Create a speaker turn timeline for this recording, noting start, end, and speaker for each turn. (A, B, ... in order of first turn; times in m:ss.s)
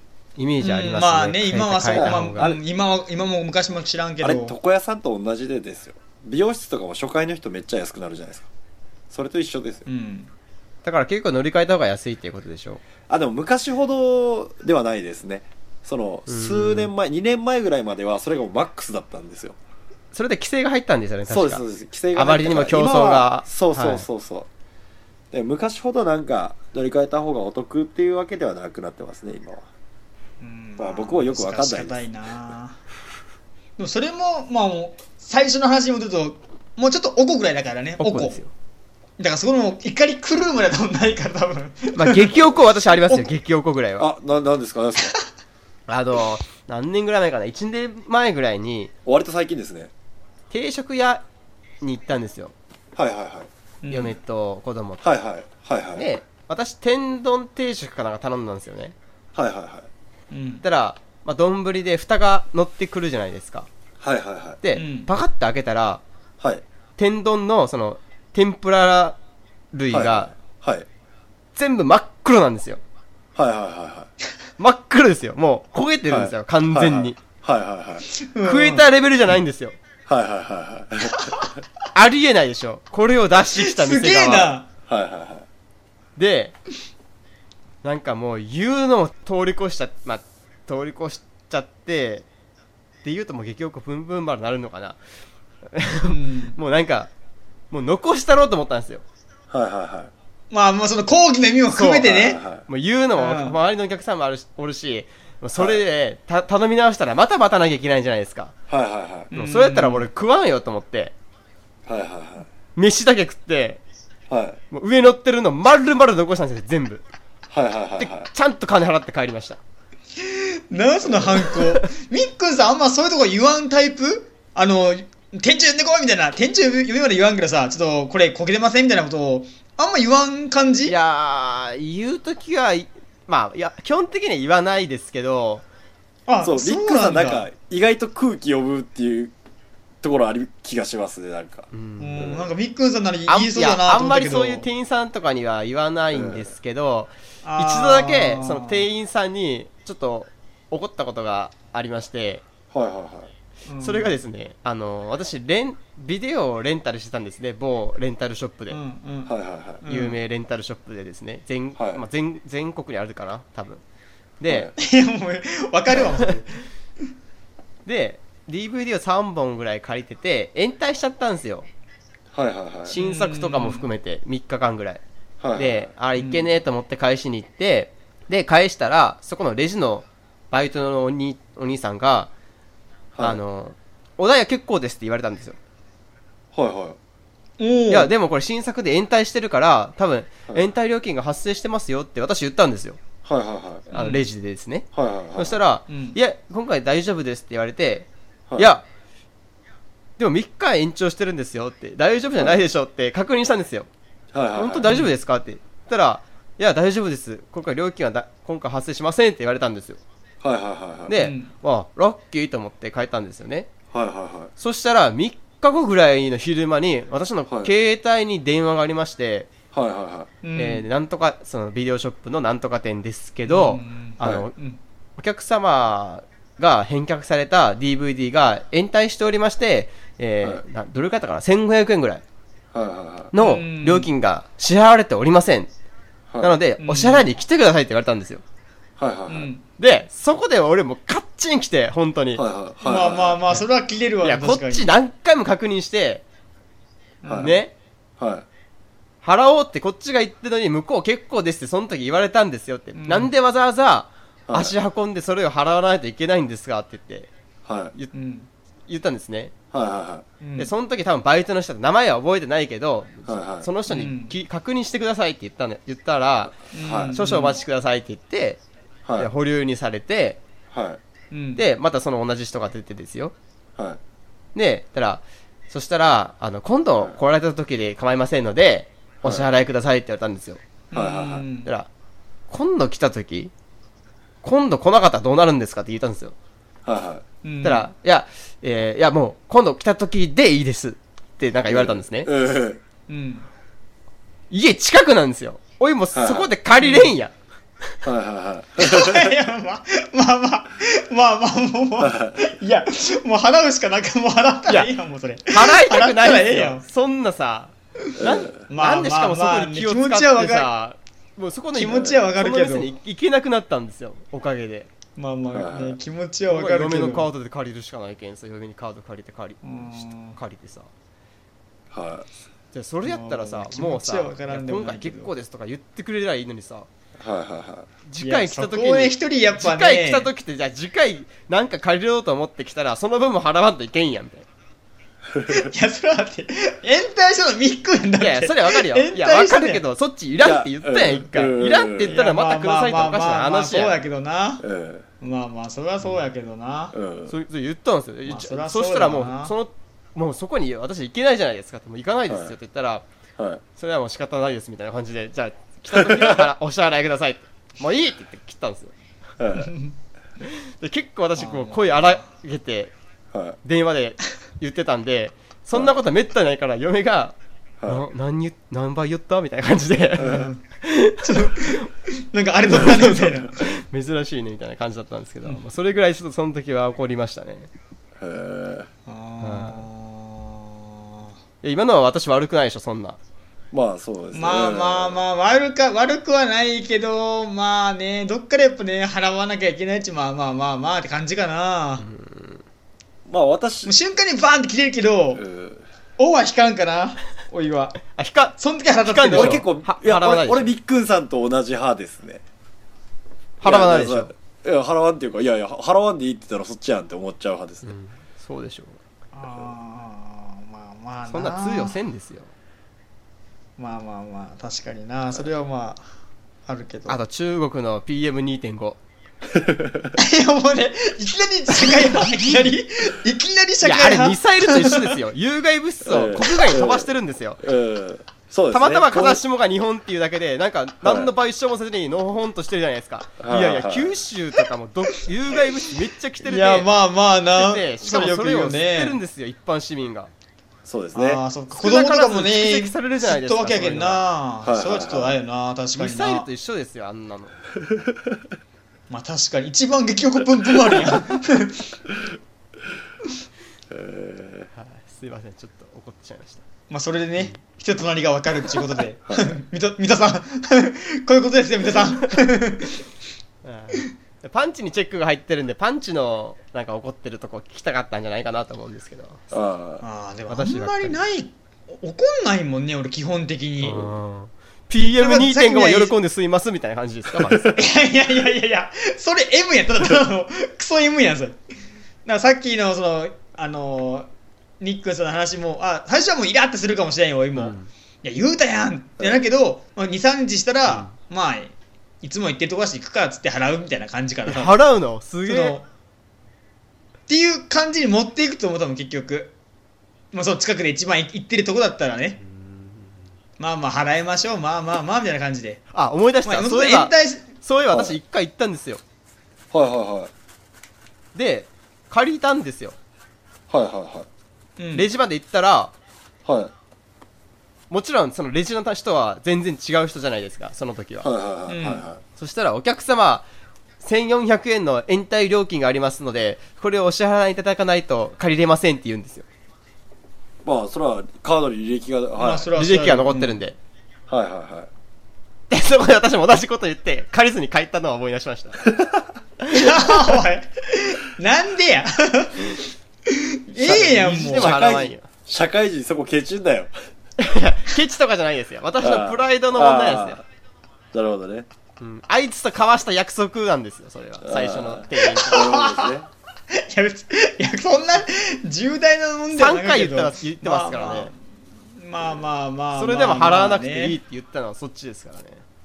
0:00.4-0:02.5 A
0:00.6-0:04.5 B
0:01.9-0:02.6 C
0:04.2-0:08.5 C
0:09.1-0:09.8 C
0:09.8-0:10.3 B
0:10.8-0:12.8 A
0:13.1-0:19.6 C
0:16.3-0:16.9 A
0:20.1-0:24.0 A
0:21.3-0:24.5 C
0:25.3-0:29.6 C
0:30.4-0:32.8 B
0:30.8-0:32.0 C
0:33.8-0:38.4 B
0:38.0-0:38.5 A
0:39.2-0:42.3 B
0:41.9-0:44.1 A
0:42.3-0:42.6 C
0:44.0-0:45.1 C
0:45.9-0:48.9 A
0:49.0-0:49.9 C
0:50.5-0:51.2 A
0:51.8-0:52.5 A
0:53.0-0:53.5 C
0:53.8-0:54.2 B
0:53.9-0:55.1 A
0:55.0-0:56.0 C
0:56.0-0:58.9 A
0:59.3-0:59.9 C
1:00.3-1:00.6 B
1:00.6-1:03.7 A
1:04.0-1:04.6 C
1:04.6-1:06.0 A
1:04.7-1:05.1 B
1:07.0-1:09.2 A
1:09.7-1:10.3 A
1:09.9-1:10.8 C
1:11.5-1:12.8 A
1:13.4-1:14.1 C
1:14.6-1:17.2 A
1:16.1-1:18.1 C
1:18.2-1:18.9 B
1:18.4-1:19.8 A
1:20.1-1:21.5 C
1:21.1-1:21.4 B
1:21.9-1:24.6 A
1:23.5-1:24.7 B
1:24.9-1:25.4 C
1:26.2-1:26.6 A
1:27.8-1:32.2 A
1:33.0-1:35.0 A
1:35.7-1:37.1 A
1:36.0-1:36.6 B
1:37.7-1:39.0 A
1:39.5-1:40.1 C
1:40.5-1:42.4 B
1:41.7-1:42.1 A
1:42.0-1:42.6 C
1:42.6-1:48.5 A
1:43.2-1:43.6 B
1:45.6-1:45.8 C
1:48.7-1:49.3 C
1:49.3-1:50.1 B
1:49.3-1:51.1 A
1:51.8-1:52.5 C
1:52.8-1:53.8 A
1:54.3-1:54.6 C
1:54.7-1:57.0 A
1:57.5-1:58.3 C
1:58.0-1:59.6 A
2:00.2-2:10.9 B
2:10.8-2:15.6 A
2:16.3-2:17.5 B
2:16.4-2:19.3 C
2:20.0-2:21.7 C
2:21.7-2:22.4 A
2:22.0-2:24.6 B
2:23.3-2:32.4 A
2:26.1-2:26.5 C
2:27.4-2:28.8 B
2:32.7-2:33.3 C
2:33.7-2:34.1 B
2:33.8-2:38.8 A
2:38.7-2:40.2 B
2:39.2-2:39.8 C
2:39.9-2:43.8 A
2:41.8-2:42.0 C
2:44.4-2:44.7 A
2:44.5-2:44.7 C
2:44.8-2:46.6 B
2:47.8-2:51.7 A
2:52.3-2:52.9 C
2:52.8-2:55.0 A
2:53.0-2:53.9 B
2:55.4-2:55.9 C
2:55.6-3:02.3 A
2:56.2-2:56.5 B
3:03.1-3:03.4 C
3:03.2-3:05.6 A
3:06.5-3:07.0 C
3:07.6-3:08.1 B
3:07.9-3:13.0 A
3:13.2-3:13.9 C
3:13.9-3:14.2 B
3:13.9-3:18.8 A
3:14.9-3:15.6 C
3:15.9-3:16.2 B
3:20.2-3:23.9 A
3:24.3-3:24.9 C
3:24.5-3:30.0 A
3:30.4-3:31.1 C
3:31.1-3:33.7 A
3:31.2-3:31.5 B
3:33.9-3:34.5 C
3:34.6-3:39.5 A
3:39.7-3:40.3 C
3:40.4-3:40.8 B
3:40.6-3:44.5 A
3:43.5-3:44.8 B
3:45.2-3:52.2 A
3:52.7-3:53.3 C
3:53.3-3:55.7 A
3:53.4-3:54.1 B
3:56.3-3:56.6 C
3:56.4-3:58.4 A
3:56.8-3:57.2 B
3:59.0-3:59.5 C
3:59.3-3:59.6 B
3:59.8-4:02.4 A
4:02.4-4:03.4 C
4:02.8-4:04.9 B
4:04.2-4:06.2 A
4:07.2-4:07.6 B
4:07.2-4:07.6 C
4:07.4-4:07.7 A
4:08.2-4:08.4 C
4:09.2-4:17.3 A
4:13.0-4:13.3 B
4:14.5-4:14.7 C
4:17.6-4:17.9 C
4:18.1-4:18.5 B
4:18.9-4:19.5 A
4:19.7-4:20.2 C
4:20.4-4:20.7 B
4:20.6-4:28.6 A
4:23.2-4:23.7 C
4:23.9-4:24.3 B
4:26.7-4:27.6 B
4:26.8-4:27.2 C
4:29.0-4:29.3 C
4:29.2-4:30.4 A
4:30.7-4:31.0 C
4:31.3-4:31.6 B
4:31.6-4:33.3 A
4:34.5-4:40.6 A
4:40.9-4:41.7 B
4:40.9-4:41.4 C
4:41.6-4:41.9 A
4:42.5-4:43.5 A
4:44.4-4:46.3 A
4:46.8-4:47.2 C
4:47.4-4:47.9 B
4:47.6-4:52.3 A
4:51.7-4:52.8 C
4:53.1-4:53.5 B
4:54.5-4:57.3 A
4:56.1-4:56.5 C
4:56.8-4:57.1 B
4:58.0-4:59.3 C
4:58.8-5:06.8 B
5:02.0-5:02.5 C
5:04.7-5:04.9 A
5:05.5-5:14.9 A
5:08.2-5:08.6 C
5:08.7-5:10.7 B
5:11.7-5:12.9 B
5:15.2-5:17.3 B
5:15.5-5:16.0 C
5:16.5-5:20.9 A
5:19.6-5:20.4 B
5:21.9-5:22.3 C
5:22.7-5:26.9 A
5:23.0-5:25.3 B
5:27.2-5:27.9 C
5:28.0-5:34.4 A
5:28.2-5:30.3 B
5:35.3-5:35.7 C
5:35.5-5:39.8 B
5:38.2-5:44.0 A
5:40.4-5:42.2 C
5:42.1-5:44.6 B
5:44.6-5:45.0 C
5:45.2-5:46.9 B
5:46.9-5:47.3 C
5:47.3-5:53.0 A
5:48.2-5:49.5 B
5:52.3-5:52.5 C
5:53.4-5:53.6 C
5:53.8-5:58.9 A
5:55.9-5:56.5 C
5:59.4-5:59.7 C
5:59.6-5:59.9 B
6:00.4-6:02.9 A
6:01.4-6:02.2 B
6:03.3-6:03.6 C
6:03.6-6:11.8 A
6:10.1-6:10.6 B
6:10.2-6:10.5 C
6:11.2-6:13.6 B
6:12.7-6:17.7 A
6:18.2-6:18.9 C
6:19.1-6:20.9 B
6:19.4-6:19.8 A
6:21.6-6:23.2 A
6:23.7-6:25.2 C
6:24.3-6:32.0 B
6:32.0-6:32.6 A
6:33.3-6:33.9 C
6:33.8-6:35.4 B
6:35.3-6:35.8 C
6:36.2-6:39.6 B
6:38.1-6:40.7 A
6:39.3-6:42.4 C
6:43.6-6:44.3 A
6:43.6-6:47.9 C
6:47.8-6:49.0 A
6:49.3-6:52.0 B
6:51.3-6:52.5 A
6:53.8-6:56.0 B
6:56.7-6:57.2 B
6:57.1-6:59.0 A
6:59.5-7:00.1 C
7:00.2-7:05.2 B
7:03.8-7:07.6 A
7:06.0-7:09.4 C
7:08.7-7:16.9 A
7:11.0-7:11.3 C
7:13.4-7:14.2 C
7:16.4-7:19.2 B
7:17.5-7:20.3 A
7:20.8-7:21.4 C
7:21.1-7:26.5 B
7:21.7-7:24.2 A
7:24.6-7:25.4 C
7:26.0-7:27.6 A
7:27.9-7:28.4 C
7:29.1-7:31.9 B
7:33.9-7:34.7 C
7:34.7-7:36.6 A
7:36.9-7:43.0 B
7:39.3-7:39.6 C
7:43.6-7:49.5 A
7:49.5-7:50.0 C
7:50.0-7:54.1 B
7:50.5-7:51.2 A
7:53.8-7:57.8 A
7:55.2-7:56.1 B
7:57.7-8:01.6 B
8:02.2-8:04.3 B
8:04.8-8:14.8 B
8:07.5-8:07.9 A
8:14.4-8:15.8 A
8:15.4-8:15.8 B
8:17.3-8:19.5 B
8:20.3-8:22.4 B
8:22.4-8:23.3 A
8:23.6-8:25.8 B
8:25.9-8:29.0 A
8:26.4-8:27.5 B
8:27.9-8:28.2 C
8:29.7-8:30.3 C
8:31.3-8:33.0 A
8:33.7-8:34.3 C
8:34.8-8:35.1 B
8:34.9-8:35.9 A
8:36.4-8:36.7 C
8:37.9-8:41.3 A
8:41.2-8:42.2 C
8:41.7-8:42.0 B
8:42.4-8:43.4 A
8:44.0-8:49.4 A
8:50.6-8:52.7 C
8:52.4-8:53.6 B
8:52.8-8:53.8 A
8:54.3-8:54.9 C
8:55.7-8:58.9 A
8:58.9-8:59.2 C
8:59.6-9:00.1 A
8:59.7-9:04.7 B
9:03.8-9:05.3 A
9:04.5-9:06.9 C
9:07.4-9:10.4 A
9:09.0-9:10.4 C
9:11.1-9:11.7 C
9:12.0-9:15.7 A
9:14.4-9:16.3 C
9:15.3-9:16.2 B
9:16.7-9:21.4 B
9:19.5-9:21.3 A
9:21.9-9:24.2 B
9:22.9-9:25.6 A